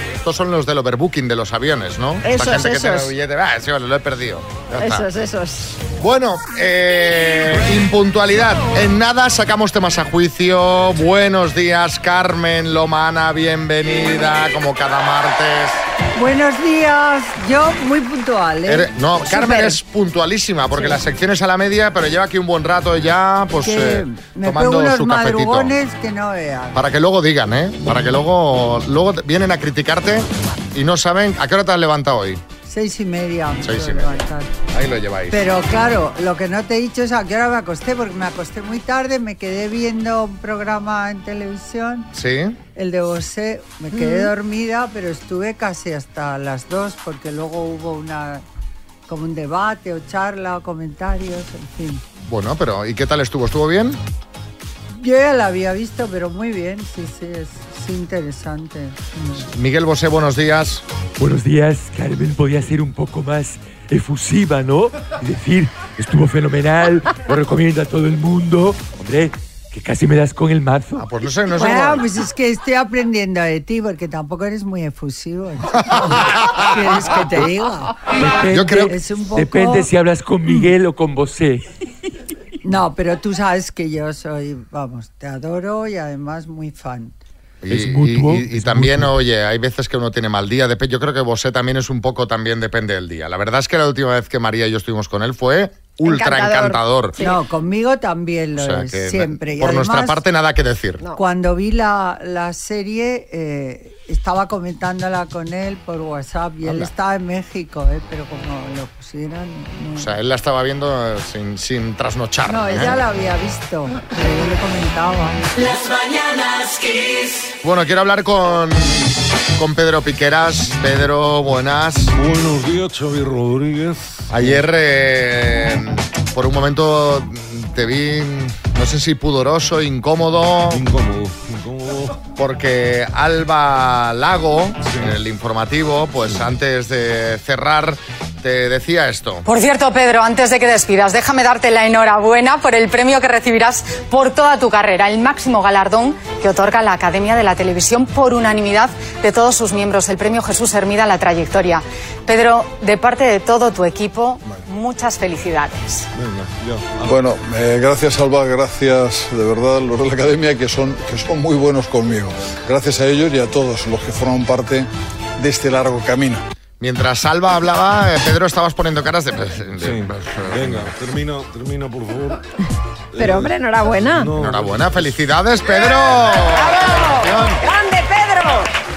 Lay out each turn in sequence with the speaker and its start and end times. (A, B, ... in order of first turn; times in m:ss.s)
0:00.2-0:05.0 A
0:02.2-0:03.1 B
0:04.8-0:05.8 B
0:06.0-0:15.8 A
0:16.2-0:18.9 C
0:18.7-0:25.7 A
0:19.3-0:19.7 B
0:23.6-0:26.8 C
0:26.7-0:32.4 A
0:32.6-0:34.5 C
0:33.6-0:34.1 A
0:34.7-0:35.4 A
0:35.3-0:42.1 C
0:42.1-0:42.6 A
0:42.8-0:48.4 C
0:44.0-0:44.3 B
0:49.1-0:52.0 C
0:52.2-0:54.0 A
0:54.9-0:59.5 C
0:59.4-1:00.8 A
1:01.2-1:11.0 D
1:11.0-1:12.0 A
1:11.6-1:18.0 C
1:18.2-1:18.8 D
1:18.5-1:18.9 A
1:18.6-1:19.9 C
1:19.4-1:21.6 D
1:22.6-1:27.2 C
1:27.6-1:37.2 A
1:27.8-1:28.9 D
1:36.0-1:37.4 B
1:37.2-1:40.2 C
1:38.6-1:41.0 A
1:41.2-1:50.1 C
1:46.6-1:46.9 A
1:50.0-1:53.0 A
1:52.5-1:55.5 C
1:57.6-2:02.1 A
2:02.1-2:04.6 E
2:04.3-2:10.8 A
2:10.7-2:12.2 E
2:12.4-2:19.4 A
2:19.4-2:36.0 F
2:36.2-2:37.2 E
2:37.2-2:44.8 G
2:45.6-2:46.4 G
2:46.8-2:50.9 A
2:49.8-2:52.4 E
2:53.1-2:55.2 E
2:53.2-2:54.3 B
2:54.3-2:57.6 A
2:56.4-2:58.7 B